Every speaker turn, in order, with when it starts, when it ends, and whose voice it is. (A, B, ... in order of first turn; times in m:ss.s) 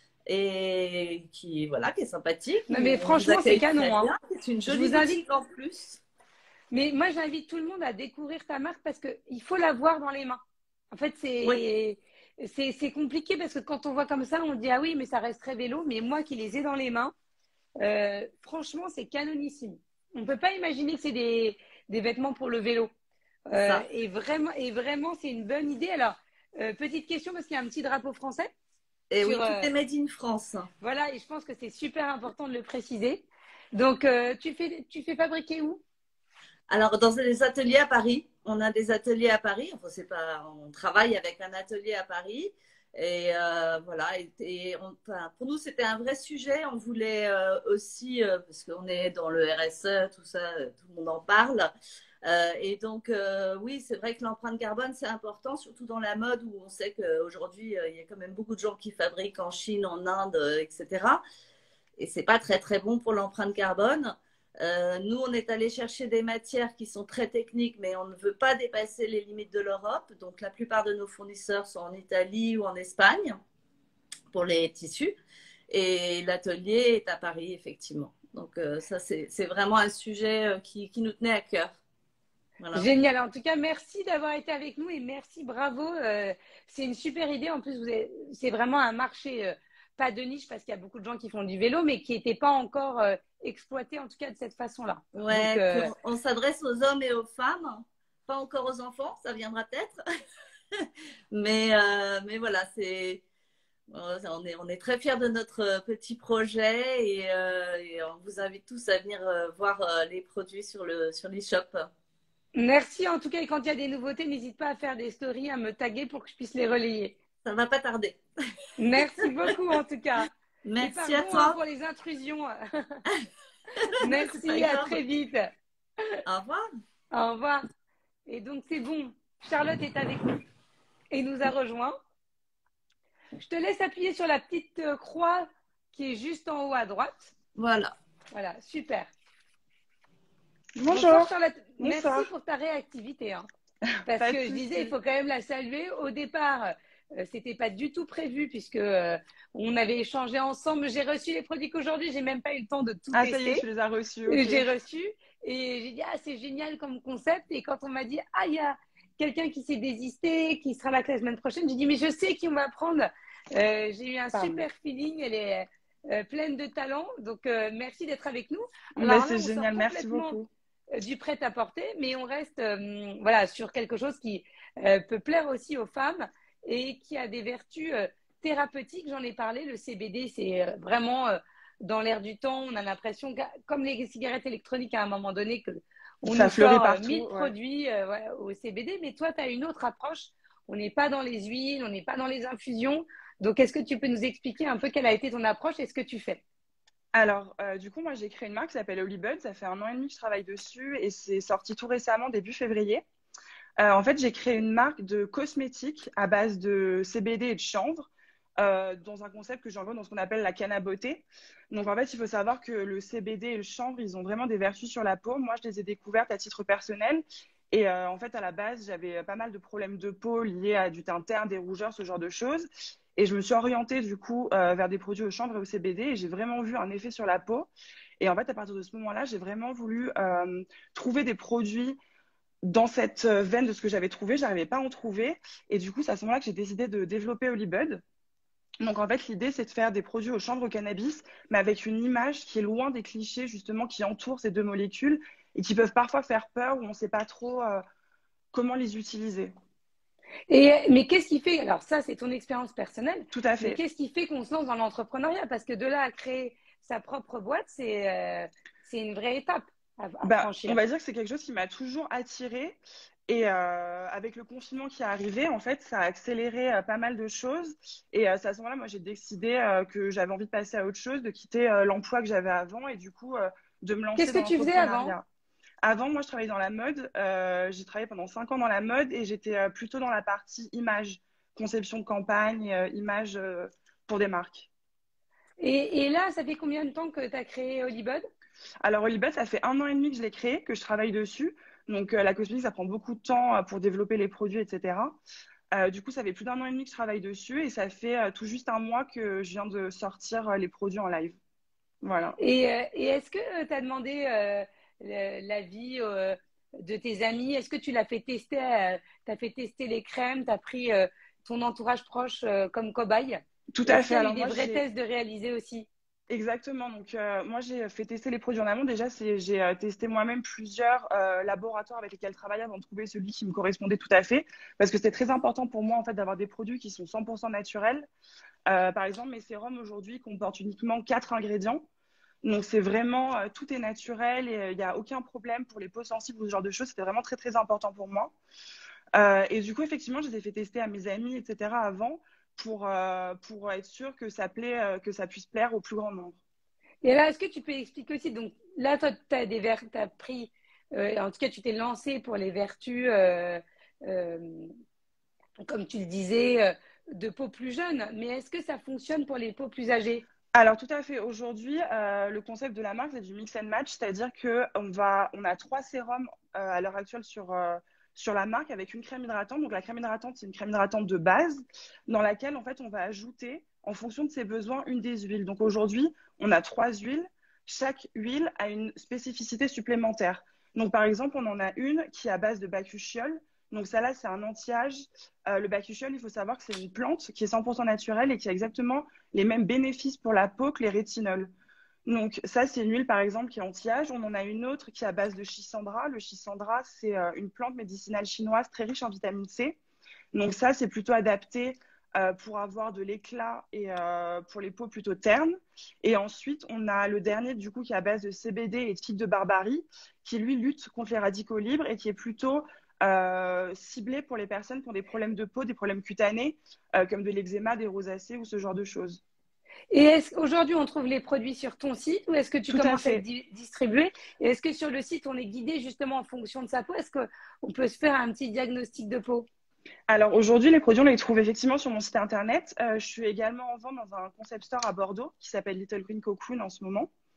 0:00.3-0:06.0 A
0:02.7-0:04.1 B
0:04.7-0:05.2 B
0:06.7-0:10.4 B
0:10.9-0:17.1 B
0:17.8-0:22.9 B
0:23.5-0:28.5 B
0:23.6-0:23.8 A
0:29.1-0:30.7 A
0:29.2-0:29.7 B
0:30.8-0:35.8 B
0:36.7-0:51.7 A
0:52.2-1:01.2 A
1:02.0-1:13.4 A
1:14.3-1:15.2 A
1:15.7-1:21.8 A
1:22.6-1:22.9 A
1:22.7-1:35.9 B
1:35.2-1:40.0 A
1:40.8-1:43.2 A
1:43.9-1:51.9 A
1:52.6-1:57.2 B
1:57.4-1:58.2 A
1:58.8-2:00.3 B
1:59.0-1:59.5 A
2:00.6-2:01.6 A
2:00.8-2:03.0 B
2:03.8-2:05.0 A
2:04.0-2:05.5 B
2:06.3-2:06.6 A
2:07.1-2:07.6 B
2:08.3-2:10.3 B
2:11.1-2:12.0 B
2:13.4-2:17.3 B
2:17.6-2:17.9 A
2:18.3-2:19.1 B
2:20.8-2:22.3 C
2:20.9-2:23.5 B
2:24.1-2:24.9 C
2:24.1-2:33.6 B
2:33.1-2:34.7 C
2:34.3-2:50.4 B
2:44.3-2:44.6 C
2:49.0-2:50.5 C
2:50.9-3:16.4 B
3:06.2-3:07.5 C
3:17.1-3:23.0 C
3:23.8-3:47.7 C
3:48.2-3:52.0 C
3:52.6-3:58.0 C
3:58.8-4:07.8 C
4:08.5-4:09.5 C
4:10.5-4:20.8 B
4:13.3-4:13.8 C
4:20.2-4:35.3 C
4:34.2-4:35.2 B
4:35.8-4:44.7 C
4:45.6-4:48.2 B
4:48.8-4:55.2 C
4:55.7-5:01.4 C
5:02.0-5:02.4 C
5:02.4-5:15.9 B
5:13.7-5:14.8 C
5:16.3-5:28.1 C
5:28.7-5:31.9 C
5:32.4-5:38.4 C
5:39.2-5:46.4 C
5:47.0-5:54.7 B
5:55.6-6:00.2 B
6:00.5-6:31.5 C
6:32.1-6:39.8 C
6:40.3-6:59.2 C
6:59.9-7:09.5 B
7:02.7-7:03.2 C
7:10.1-7:17.1 C